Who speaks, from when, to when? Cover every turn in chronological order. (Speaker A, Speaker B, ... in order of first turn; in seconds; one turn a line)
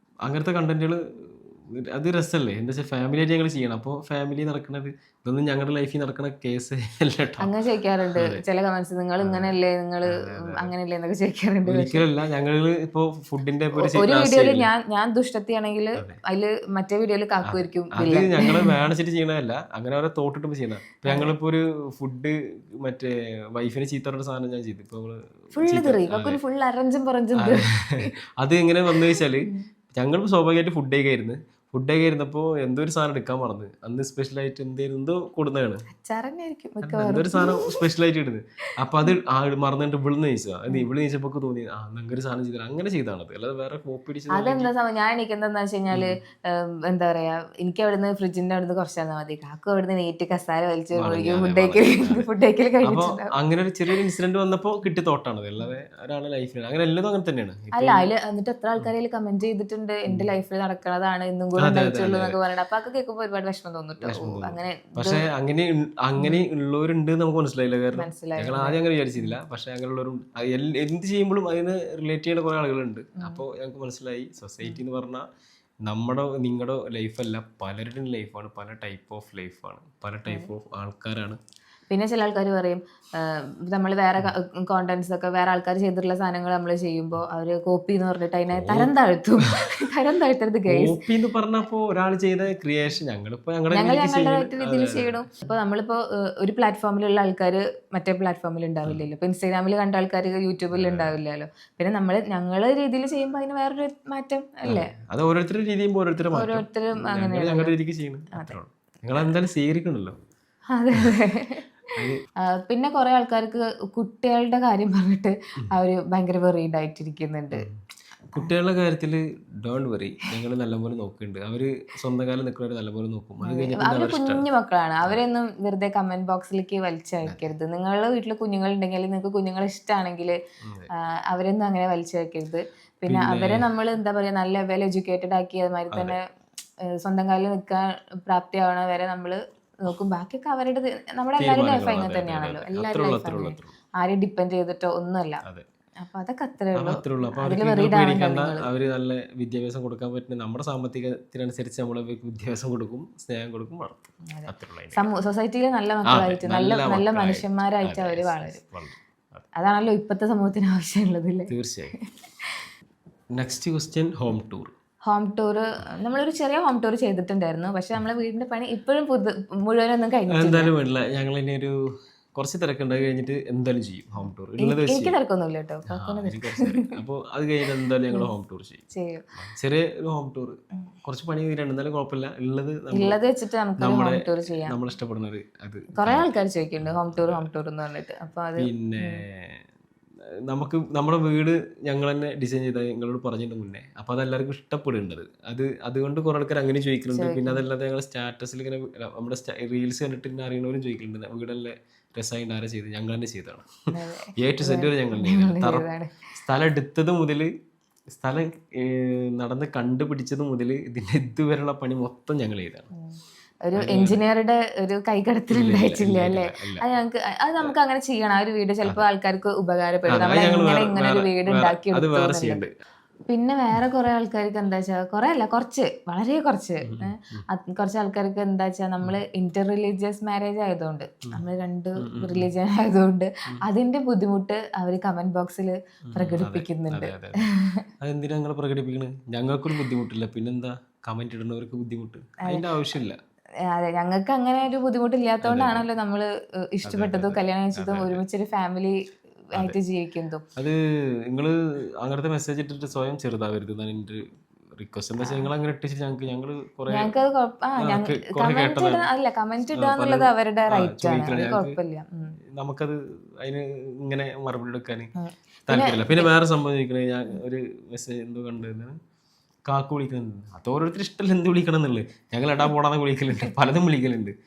Speaker A: 0.2-7.5
Speaker B: 7.4-12.0
Speaker A: 8.2-8.4
Speaker A: 9.2-9.6
Speaker A: 10.1-10.7
Speaker A: 11.7-14.7
Speaker B: 13.8-18.8
Speaker A: 17.4-26.4
Speaker B: 25.5-28.1
Speaker A: 27.4-35.8
Speaker B: 28.9-29.6
Speaker B: 35.9-37.8
Speaker A: 36.8-44.7
Speaker B: 44.3-53.3
Speaker A: 50.9-52.3
Speaker A: 52.8-58.1
Speaker B: 57.7-65.2
Speaker A: 61.6-62.4
Speaker A: 64.0-75.2
Speaker B: 66.2-66.4
Speaker B: 68.0-69.3
Speaker A: 75.8-81.4
Speaker B: 81.9-91.0
Speaker A: 88.5-89.6
Speaker A: 90.7-95.2
Speaker B: 93.7-104.9
Speaker A: 100.7-101.1
Speaker A: 104.7-110.2
Speaker B: 106.3-107.8
Speaker B: 110.7-111.6
Speaker A: 111.9-112.2
Speaker B: 112.4-117.7
Speaker A: 118.3-124.4
Speaker B: 123.4-130.3
Speaker A: 130.6-130.9
Speaker B: 131.0-136.2
Speaker A: 133.1-133.7
Speaker A: 135.9-136.2
Speaker B: 137.0-145.4
Speaker A: 141.4-143.8
Speaker B: 146.0-148.7
Speaker A: 146.8-155.1
Speaker B: 154.3-158.6
Speaker A: 156.1-159.4
Speaker B: 159.6-162.7
Speaker A: 161.5-161.9
Speaker A: 163.3-164.7
Speaker B: 165.1-170.7
Speaker A: 170.3-171.8
Speaker A: 172.3-175.1
Speaker B: 174.2-176.9
Speaker A: 175.9-183.2
Speaker B: 178.9-179.2
Speaker B: 182.9-184.8
Speaker A: 183.8-187.5
Speaker B: 185.9-189.2
Speaker A: 188.6-189.6
Speaker A: 190.5-203.7
Speaker B: 197.1-197.6
Speaker B: 203.9-206.2
Speaker A: 204.4-207.5
Speaker A: 208.1-212.9
Speaker B: 212.9-222.6
Speaker A: 213.8-214.2
Speaker A: 215.5-216.9
Speaker A: 220.1-222.7
Speaker B: 223.3-237.8
Speaker A: 226.8-227.4
Speaker A: 232.0-232.5
Speaker A: 236.1-237.4
Speaker A: 238.0-243.2
Speaker B: 243.7-249.0
Speaker A: 245.4-245.9
Speaker A: 246.8-248.2
Speaker B: 249.5-250.4
Speaker A: 250.6-254.2
Speaker A: 254.8-257.1
Speaker B: 255.2-255.5
Speaker B: 256.9-262.4
Speaker A: 257.8-259.1
Speaker A: 259.7-261.8
Speaker A: 262.6-265.1
Speaker B: 265.2-266.3
Speaker A: 265.7-268.9
Speaker A: 269.7-274.3